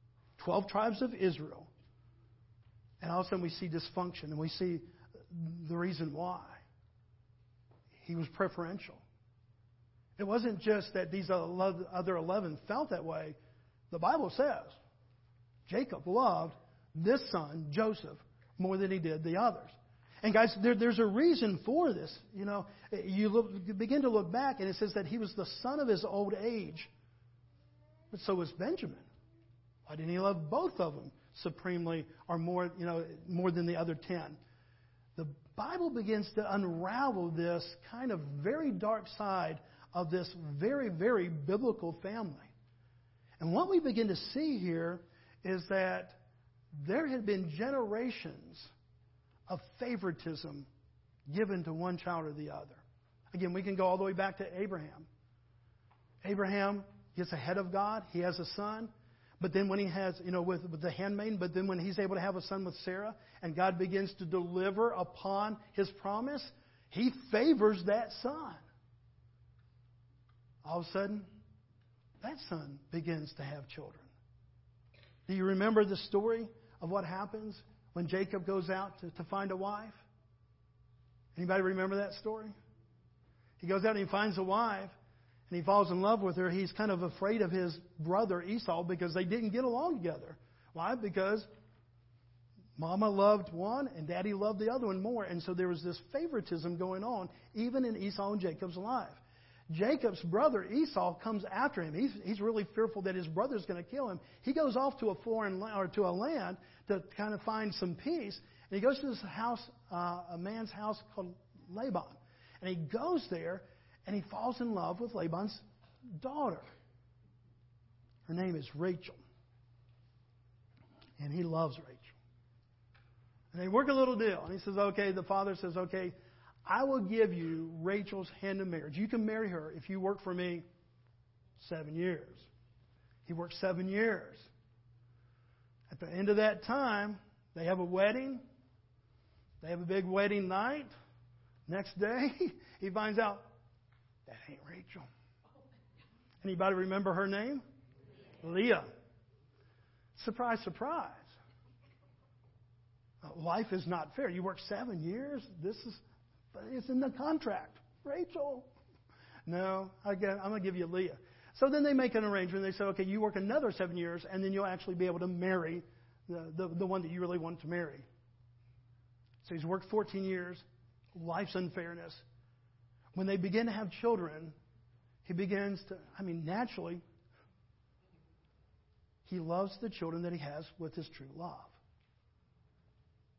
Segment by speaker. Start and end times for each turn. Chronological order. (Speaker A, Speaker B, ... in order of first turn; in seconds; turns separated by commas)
Speaker A: 0.4-1.7, Speaker A: 3.0-6.6, Speaker A: 8.0-9.0, Speaker A: 10.2-13.4, Speaker A: 13.9-14.8, Speaker A: 15.7-26.9, Speaker A: 28.1-29.1, Speaker A: 29.9-34.4, Speaker A: 35.2-42.5, Speaker A: 43.4-46.2, Speaker A: 46.8-48.7, Speaker A: 49.5-50.7, Speaker A: 51.3-55.1, Speaker A: 56.2-68.6, Speaker A: 70.6-71.3, Speaker A: 72.2-74.1, Speaker A: 75.3-80.0, Speaker A: 81.3-82.5, Speaker A: 83.6-85.0, Speaker A: 85.5-91.5, Speaker A: 92.8-116.7, Speaker A: 118.3-119.2, Speaker A: 121.2-122.2, Speaker A: 123.5-130.7, Speaker A: 131.6-132.5, Speaker A: 133.3-134.5, Speaker A: 135.9-138.4, Speaker A: 139.6-140.9, Speaker A: 141.7-143.5, Speaker A: 144.3-145.1, Speaker A: 146.4-147.6, Speaker A: 148.4-148.9, Speaker A: 150.2-151.3, Speaker A: 153.2-156.0, Speaker A: 156.5-158.7, Speaker A: 159.5-168.0, Speaker A: 169.4-172.2, Speaker A: 173.1-174.6, Speaker A: 175.2-177.0, Speaker A: 179.2-181.8